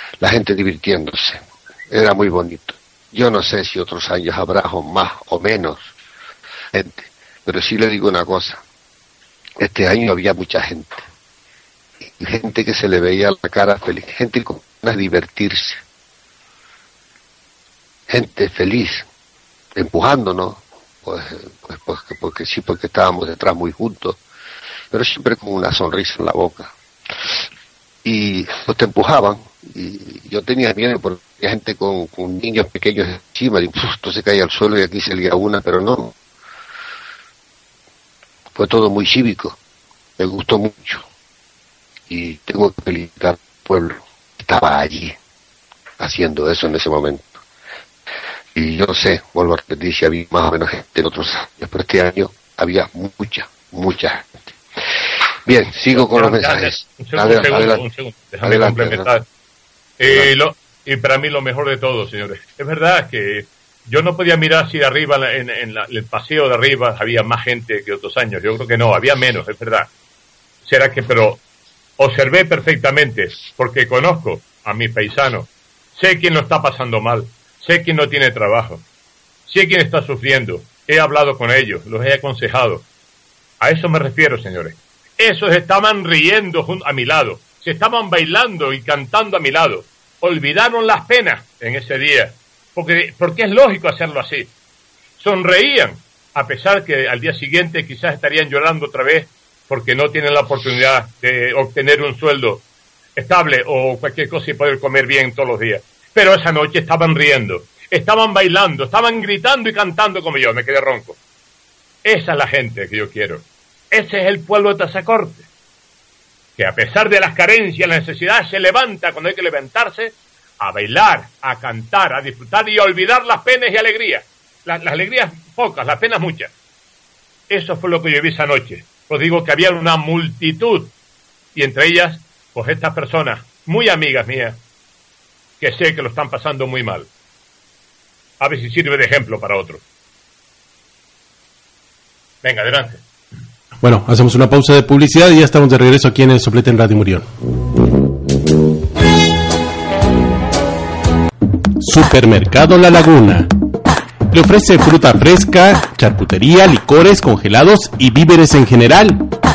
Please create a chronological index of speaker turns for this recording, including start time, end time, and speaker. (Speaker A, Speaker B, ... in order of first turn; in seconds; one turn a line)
Speaker A: 0.2-5.9
Speaker A: 6.7-8.6
Speaker A: 9.6-11.1
Speaker A: 12.0-15.8
Speaker A: 18.1-19.1
Speaker A: 19.8-24.2
Speaker A: 24.9-26.7
Speaker A: 28.0-36.1
Speaker A: 38.5-39.6
Speaker A: 40.2-41.0
Speaker A: 42.1-45.2
Speaker A: 46.0-47.4
Speaker A: 48.5-54.6
Speaker A: 55.5-57.8
Speaker B: 55.9-59.3
Speaker A: 58.4-59.1
Speaker B: 60.0-69.9
Speaker A: 60.0-60.3
Speaker B: 70.7-71.4
Speaker B: 72.0-78.8
Speaker B: 79.5-82.9
Speaker B: 83.6-94.5
Speaker B: 95.2-102.6
Speaker B: 103.2-111.2
Speaker B: 112.0-115.5
Speaker B: 116.6-126.5
Speaker B: 127.5-130.9
Speaker B: 131.6-134.6
Speaker B: 135.6-137.1
Speaker B: 138.4-139.8
Speaker B: 142.4-143.0
Speaker C: 143.8-147.3
Speaker C: 151.8-153.5
Speaker C: 154.3-159.2